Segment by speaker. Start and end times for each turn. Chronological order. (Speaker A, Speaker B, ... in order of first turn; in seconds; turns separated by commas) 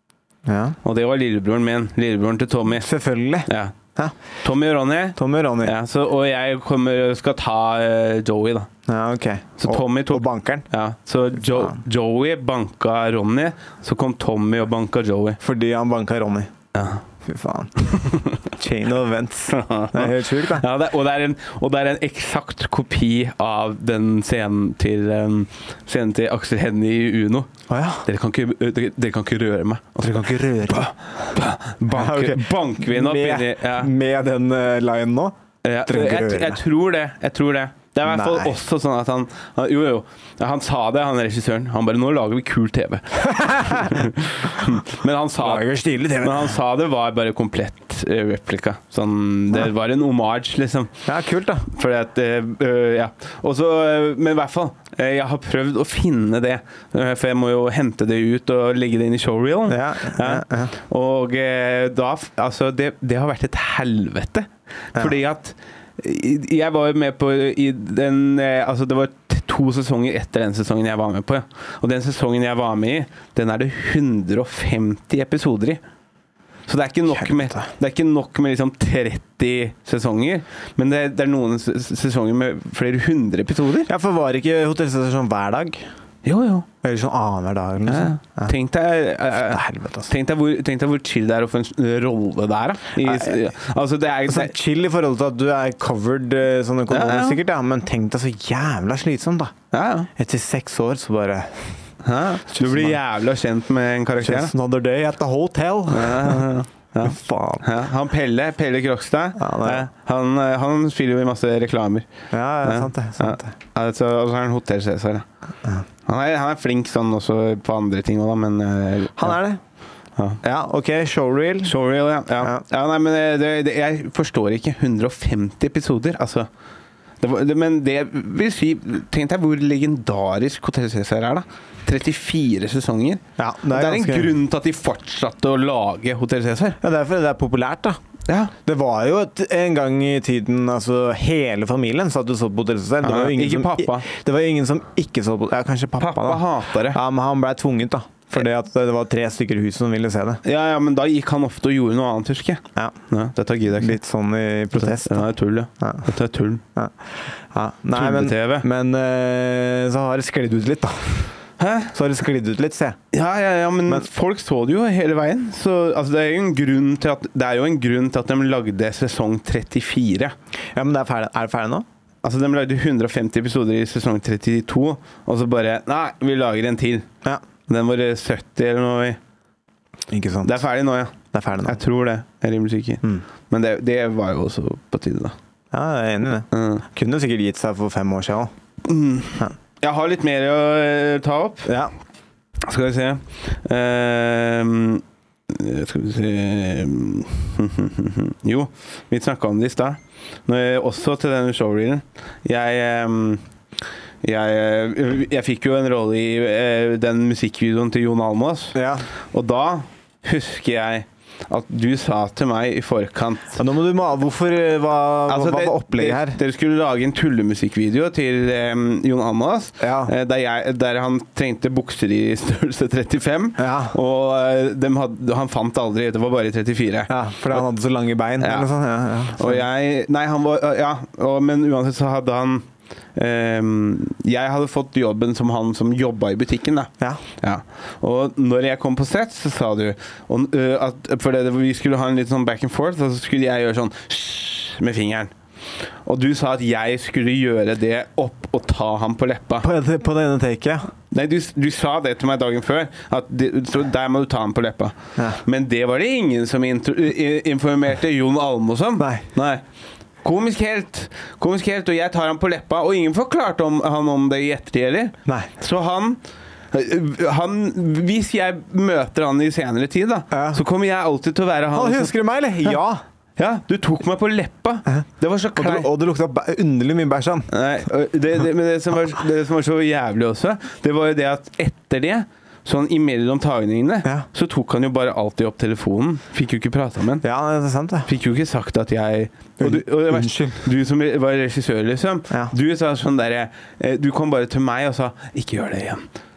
Speaker A: 0.5-0.8, Speaker B: 0.8-2.9, Speaker A: 2.7-4.1, Speaker B: 3.5-3.7, Speaker B: 4.4-8.7, Speaker A: 5.2-5.7, Speaker A: 8.9-10.7, Speaker B: 9.6-15.4, Speaker A: 11.5-11.7, Speaker A: 15.4-16.5, Speaker B: 16.7-17.0, Speaker A: 17.2-17.9, Speaker B: 17.9-18.4, Speaker A: 18.4-20.6, Speaker B: 19.5-27.5, Speaker A: 27.7-28.1, Speaker B: 28.0-33.9, Speaker A: 30.0-30.9, Speaker A: 31.9-36.6, Speaker B: 35.6-45.7, Speaker A: 38.0-38.5, Speaker A: 43.2-44.1, Speaker A: 45.4-46.5, Speaker B: 46.2-50.9, Speaker A: 51.0-51.7, Speaker B: 51.7-75.8, Speaker A: 59.7-60.7, Speaker B: 76.7-83.9, Speaker A: 77.1-77.7, Speaker A: 83.8-85.8, Speaker B: 86.2-86.7, Speaker A: 86.8-88.5, Speaker B: 87.9-94.5, Speaker A: 89.4-90.1, Speaker A: 93.0-93.4, Speaker A: 94.2-99.5, Speaker B: 96.9-97.4, Speaker B: 99.7-100.1, Speaker A: 100.2-101.8, Speaker B: 102.0-104.5, Speaker A: 102.5-103.0, Speaker A: 104.2-106.5, Speaker B: 105.9-112.1, Speaker A: 107.0-107.7, Speaker A: 109.4-109.9, Speaker A: 112.3-113.5, Speaker B: 112.6-115.2, Speaker B: 116.0-119.4, Speaker A: 119.2-119.6, Speaker A: 120.4-121.7, Speaker B: 121.6-126.5, Speaker B: 127.2-136.8, Speaker A: 133.4-134.3, Speaker A: 136.8-138.0, Speaker B: 138.3-138.5, Speaker A: 138.6-150.4, Speaker B: 143.0-144.1, Speaker B: 146.0-147.0, Speaker B: 150.4-154.0, Speaker A: 153.8-156.1, Speaker B: 154.7-156.6, Speaker A: 157.5-161.3, Speaker B: 157.9-158.7, Speaker B: 161.6-161.9, Speaker A: 161.9-163.0, Speaker B: 163.1-170.3, Speaker A: 170.7-171.8, Speaker B: 172.2-177.1, Speaker B: 177.7-179.2, Speaker A: 180.1-180.7, Speaker B: 180.4-185.3, Speaker A: 181.3-181.8, Speaker A: 185.7-188.5, Speaker B: 186.5-186.8, Speaker B: 188.8-191.7, Speaker A: 191.7-191.9, Speaker B: 192.6-203.4, Speaker B: 204.2-208.8, Speaker A: 208.7-209.1, Speaker B: 209.3-213.6, Speaker A: 213.6-216.4, Speaker B: 215.3-227.6, Speaker A: 219.8-220.1, Speaker A: 223.6-223.9, Speaker A: 227.1-229.6, Speaker B: 228.4-228.7, Speaker B: 229.3-245.3, Speaker B: 246.0-249.7, Speaker A: 249.6-250.9, Speaker B: 251.1-259.6, Speaker A: 259.0-259.2, Speaker B: 260.2-266.2, Speaker B: 266.7-272.1, Speaker A: 270.3-270.6, Speaker A: 271.7-273.0, Speaker B: 273.4-275.9, Speaker A: 275.6-277.5, Speaker B: 277.5-287.2, Speaker A: 287.2-288.1, Speaker B: 288.1-296.0, Speaker A: 289.6-290.6